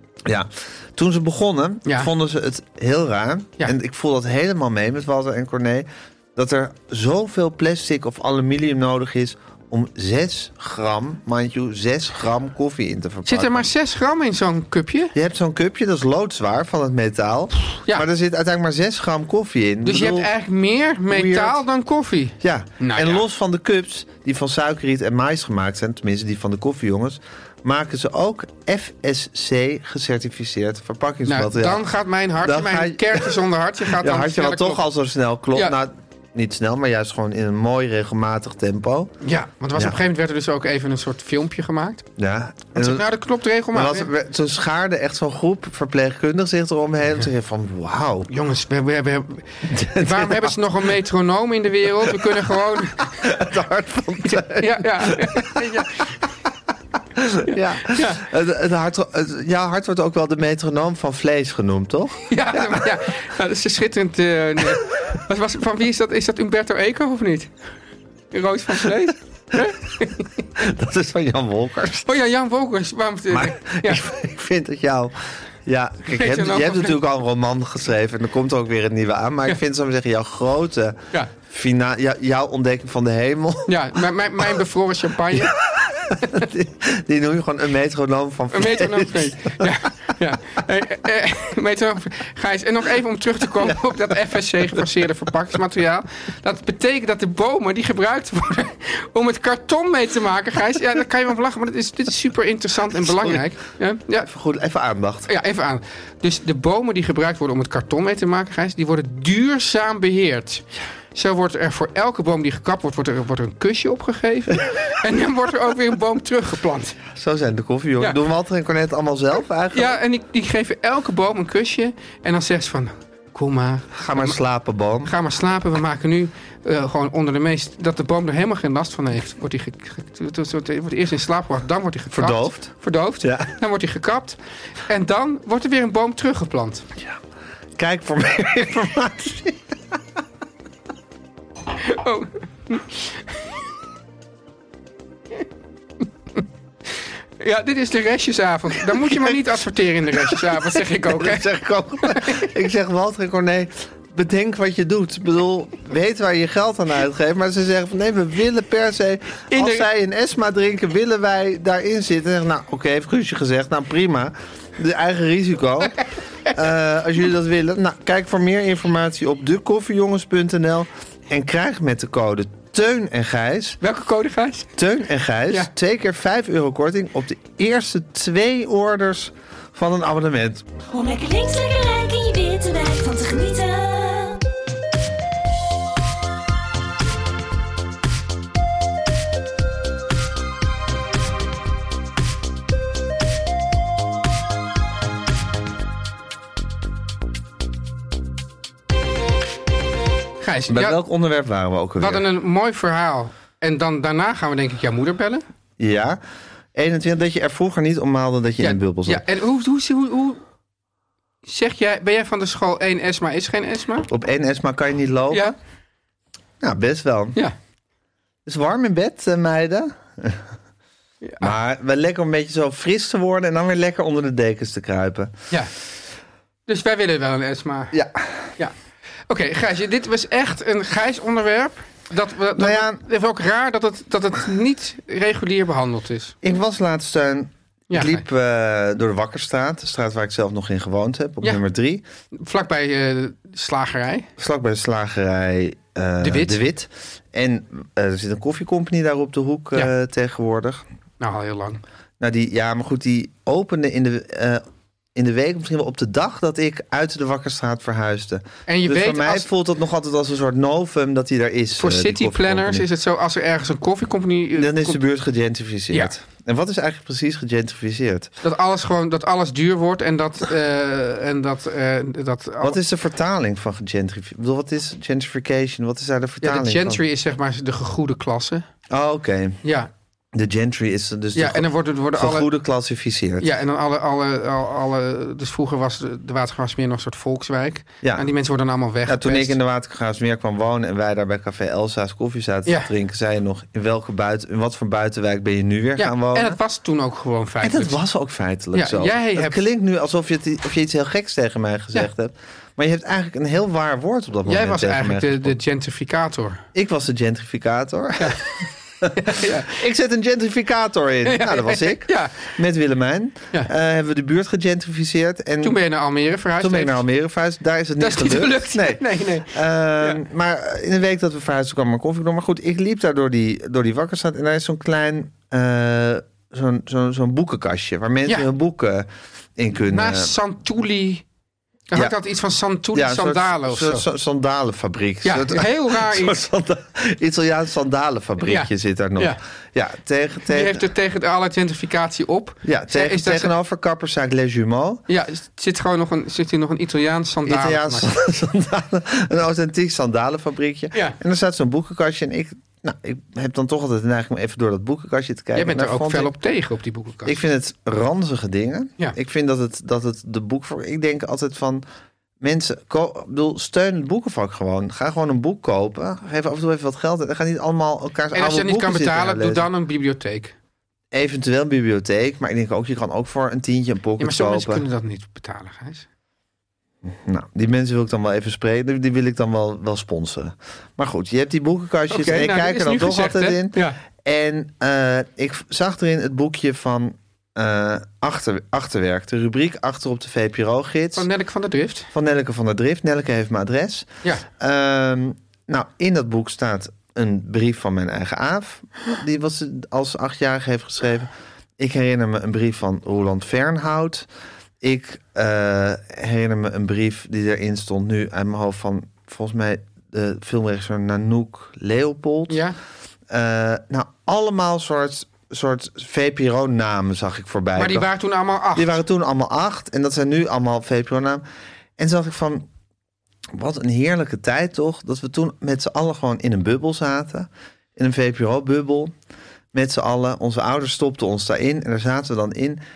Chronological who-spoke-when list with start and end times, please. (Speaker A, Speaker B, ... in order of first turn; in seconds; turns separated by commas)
Speaker A: 0.3-13.7, Speaker B: 1.9-2.1, Speaker B: 13.2-15.1, Speaker A: 15.1-20.3, Speaker B: 17.8-18.1, Speaker B: 19.8-23.2, Speaker A: 21.1-21.6, Speaker A: 22.4-31.9, Speaker B: 31.3-34.8, Speaker A: 32.4-33.4, Speaker A: 33.9-39.1, Speaker B: 39.2-42.1, Speaker A: 42.2-43.1, Speaker B: 42.7-44.1, Speaker A: 43.7-48.3, Speaker B: 48.3-53.1, Speaker A: 49.7-50.6, Speaker A: 52.1-52.5, Speaker A: 53.1-55.8, Speaker B: 54.3-56.2, Speaker A: 57.2-62.9, Speaker B: 57.5-58.2, Speaker B: 62.3-67.5, Speaker B: 68.3-70.5, Speaker A: 70.6-72.1, Speaker B: 72.1-74.0, Speaker A: 73.3-83.8, Speaker B: 76.1-77.0, Speaker B: 83.7-85.6, Speaker A: 85.3-89.7, Speaker B: 86.2-86.5, Speaker B: 88.5-104.3, Speaker A: 103.0-103.4, Speaker A: 104.3-105.3, Speaker B: 105.3-117.0, Speaker A: 117.1-120.0, Speaker B: 119.7-124.4, Speaker A: 123.9-125.1, Speaker B: 125.0-136.9, Speaker A: 132.1-133.5, Speaker A: 137.8-139.6, Speaker B: 141.8-143.2, Speaker B: 147.4-151.5, Speaker A: 148.9-149.4, Speaker A: 150.2-173.8, Speaker B: 152.0-152.5, Speaker B: 159.5-159.9, Speaker B: 173.8-174.7, Speaker A: 174.8-180.7, Speaker C: 180.9-184.4, Speaker B: 200.4-201.0, Speaker A: 200.7-202.2, Speaker B: 202.0-205.4, Speaker A: 205.8-206.2, Speaker A: 206.7-209.2, Speaker B: 208.6-210.4, Speaker B: 211.4-214.1, Speaker A: 214.1-215.5, Speaker A: 216.6-217.4, Speaker A: 218.5-220.4, Speaker B: 221.2-221.5, Speaker A: 221.4-225.3, Speaker B: 226.7-228.0, Speaker A: 227.9-228.5, Speaker B: 229.3-236.4, Speaker A: 232.6-233.0, Speaker A: 236.4-242.0, Speaker B: 237.9-238.2, Speaker B: 242.3-244.3, Speaker A: 244.4-250.8, Speaker B: 246.2-246.6, Speaker B: 251.2-251.8, Speaker A: 252.2-254.6, Speaker A: 255.2-262.9, Speaker B: 258.7-259.5, Speaker B: 261.8-265.0, Speaker A: 264.6-268.3, Speaker B: 268.4-272.8, Speaker A: 272.6-277.0, Speaker B: 276.4-278.7, Speaker A: 278.9-279.6, Speaker B: 279.6-279.9, Speaker A: 280.3-283.5, Speaker B: 281.4-282.5, Speaker B: 283.4-289.6, Speaker A: 288.0-288.3, Speaker A: 289.1-296.6, Speaker B: 296.0-298.0, Speaker A: 297.6-305.6, Speaker B: 298.7-299.6, Speaker B: 304.5-306.6, Speaker A: 306.7-315.8, Speaker B: 308.2-308.5, Speaker B: 309.1-309.8, Speaker B: 311.3-312.6, Speaker B: 315.6-317.0, Speaker A: 316.6-330.3, Speaker B: 318.0-320.2, Speaker B: 329.9-331.2, Speaker B: 331.9-334.1, Speaker A: 332.9-340.8, Speaker B: 335.2-336.4, Speaker B: 338.4-339.4, Speaker B: 340.5-343.5, Speaker A: 342.6-345.0, Speaker B: 345.1-348.1, Speaker A: 347.4-356.3, Speaker B: 350.9-351.2, Speaker B: 355.6-357.4, Speaker A: 357.2-361.8, Speaker A: 362.4-369.7, Speaker B: 368.3-370.6, Speaker A: 371.1-374.8, Speaker B: 374.2-376.1, Speaker A: 377.0-391.3, Speaker B: 382.1-384.0, Speaker B: 391.2-392.1, Speaker A: 392.1-404.3, Speaker A: 404.8-412.6, Speaker B: 412.5-412.8, Speaker A: 413.3-418.1, Speaker B: 417.8-419.0, Speaker A: 418.8-421.4, Speaker A: 422.0-422.7, Speaker A: 423.5-429.1, Speaker A: 429.7-432.8